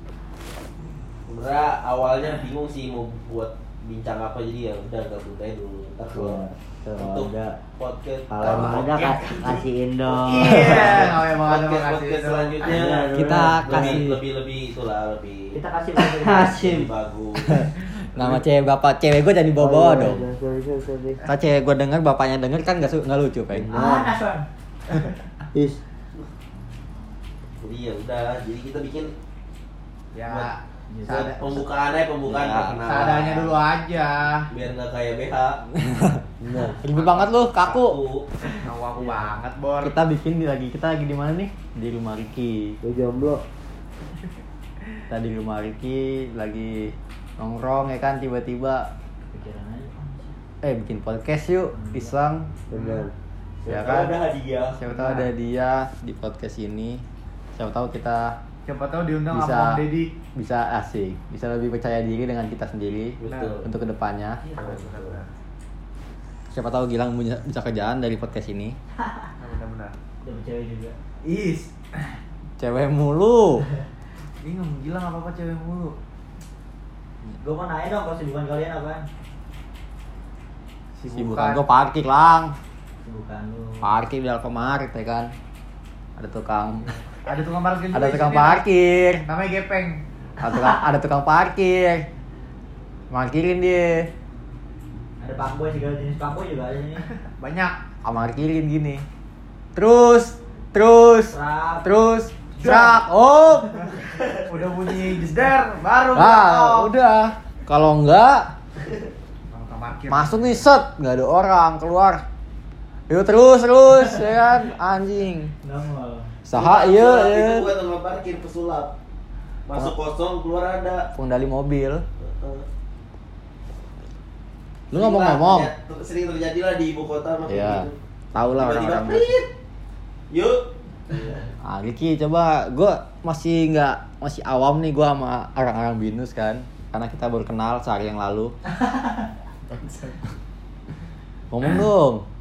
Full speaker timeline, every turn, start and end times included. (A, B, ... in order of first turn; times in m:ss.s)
0:01.2-0:06.4 A
0:06.1-0:07.6 B
0:07.0-0:09.2 A
0:08.3-0:11.1 B
0:08.4-0:09.6 C
0:10.2-0:12.7 C
0:10.3-0:15.6 A
0:12.6-0:14.1 B
0:13.1-0:14.2 D
0:15.5-0:16.8 E
0:16.0-0:16.9 B
0:16.4-0:17.7 A
0:17.5-0:20.2 D
0:19.6-0:21.2 B
0:21.2-0:23.8 D
0:23.5-0:24.1 B
0:23.7-0:24.5 E
0:25.5-0:25.8 B
0:27.6-0:29.1 A
0:30.1-0:31.6 C
0:30.2-0:30.5 A
0:31.1-0:33.6 A
0:32.3-0:32.8 D
0:32.8-0:34.5 C
0:34.5-0:35.6 A
0:35.8-0:36.2 D
0:36.4-0:36.8 B
0:36.8-0:38.0 D
0:37.6-0:38.3 A
0:38.6-0:39.9 C
0:39.8-0:42.8 D
0:42.8-0:43.4 B
0:45.1-0:48.9 D
0:49.3-0:50.3 E
0:50.6-0:52.5 D
0:51.7-0:52.1 E
0:52.7-0:53.1 B
0:52.7-0:53.0 C
0:53.6-0:54.8 E
0:53.7-0:54.2 D
0:54.8-0:57.0 D
0:57.6-0:58.4 D
0:58.6-1:00.1 C
0:59.3-0:59.8 D
1:00.3-1:04.4 D
1:03.2-1:03.7 A
1:03.3-1:03.6 C
1:04.6-1:05.2 A
1:04.6-1:05.3 C
1:06.5-1:08.8 D
1:09.4-1:10.0 C
1:10.2-1:10.9 E
1:11.2-1:11.7 C
1:12.6-1:13.6 D
1:14.4-1:16.0 C
1:17.4-1:19.0 E
1:21.0-1:21.6 C
1:21.1-1:22.5 D
1:23.0-1:23.9 E
1:23.8-1:25.3 D
1:26.2-1:27.0 D
1:27.2-1:28.6 C
1:27.9-1:29.2 D
1:29.2-1:30.0 C
1:30.4-1:32.0 D
1:33.1-1:34.1 D
1:35.2-1:37.1 E
1:37.4-1:37.8 C
1:38.0-1:39.0 D
1:39.7-1:43.9 D
1:41.3-1:41.9 E
1:42.6-1:42.9 C
1:44.0-1:44.4 E
1:44.5-1:46.9 C
1:46.1-1:48.5 D
1:49.5-1:50.6 C
1:50.1-1:52.2 D
1:53.1-1:55.5 D
1:55.6-1:56.3 E
1:56.4-1:57.7 D
1:56.5-1:58.9 A
1:59.6-2:01.1 A
2:01.1-2:02.0 D
2:02.2-2:02.6 A
2:04.9-2:05.7 D
2:04.9-2:09.5 A
2:07.5-2:09.4 D
2:10.3-2:11.5 A
2:11.6-2:18.5 D
2:19.7-2:20.2 C
2:21.5-2:22.2 D